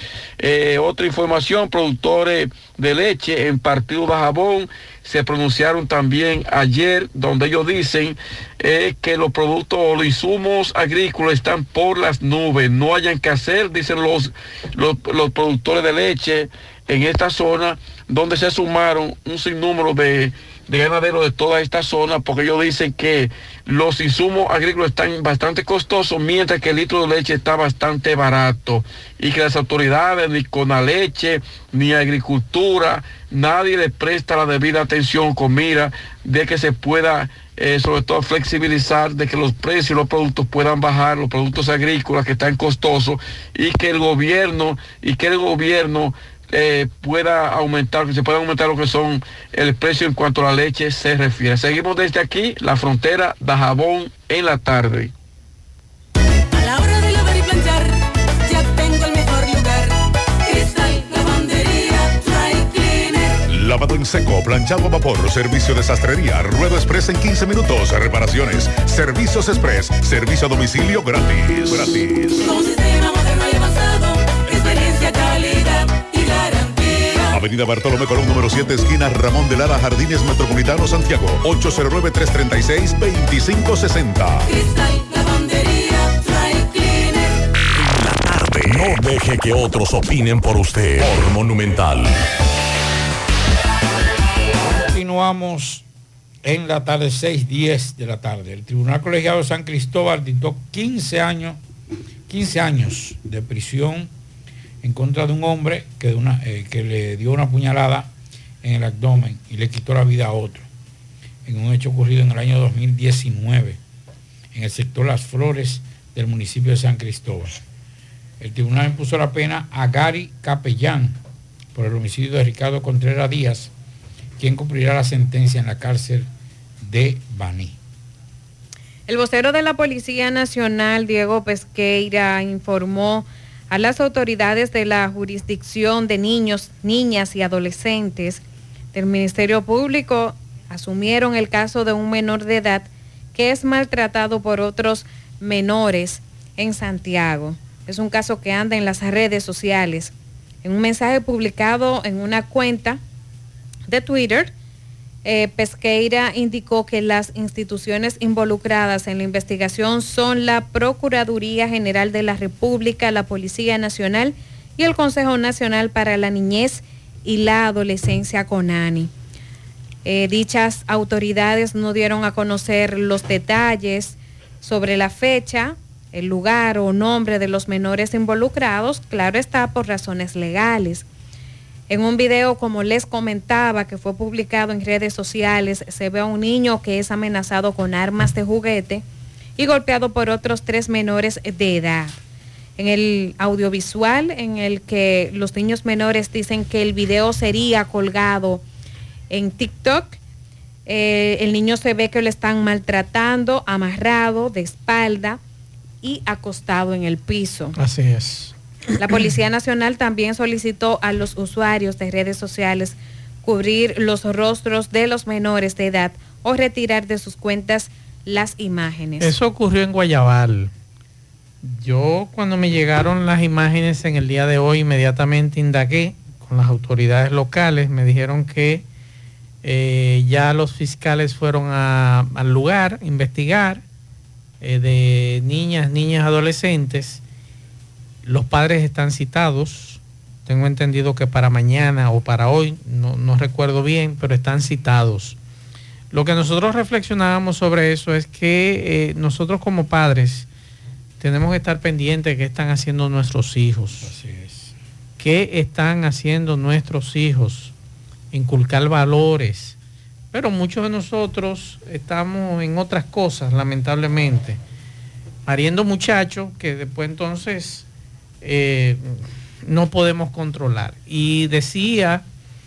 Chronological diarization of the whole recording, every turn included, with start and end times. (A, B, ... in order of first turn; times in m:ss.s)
0:00.4-0:55.1 A
0:56.5-1:03.4 B
1:03.5-1:12.5 C
1:12.4-1:17.4 B
1:17.3-1:24.5 C
1:24.5-1:27.4 B
1:27.8-1:32.2 C
1:34.6-1:35.8 D
1:36.4-1:41.6 D
1:42.3-1:44.1 D
1:44.8-1:48.1 D
1:48.6-1:50.7 D
1:51.4-1:53.8 D
1:54.5-1:57.6 D
1:58.4-2:01.2 D
2:01.8-2:03.7 D
2:04.4-2:06.3 D
2:06.8-2:07.8 D
2:09.1-2:18.4 E
2:18.9-2:30.1 E
2:30.6-2:33.0 E
2:33.9-2:34.5 E
2:35.2-2:49.1 E
2:50.0-3:01.1 E
3:01.9-3:09.0 E
3:09.6-3:12.1 E
3:12.8-3:18.6 E
3:19.3-3:20.2 E
3:20.9-3:25.4 E
3:26.0-3:27.8 E
3:27.8-3:28.5 F
3:29.0-3:39.3 E
3:39.2-3:40.7 F
3:41.6-3:48.8 F
3:49.6-3:53.8 F
3:54.6-3:57.2 F
3:58.2-4:05.4 F
4:06.1-4:10.5 F
4:11.2-4:14.1 F
4:14.0-4:14.7 D
4:15.2-4:17.7 F
4:18.3-4:19.8 F
4:20.3-4:24.6 F
4:25.5-4:27.9 F
4:28.4-4:32.2 F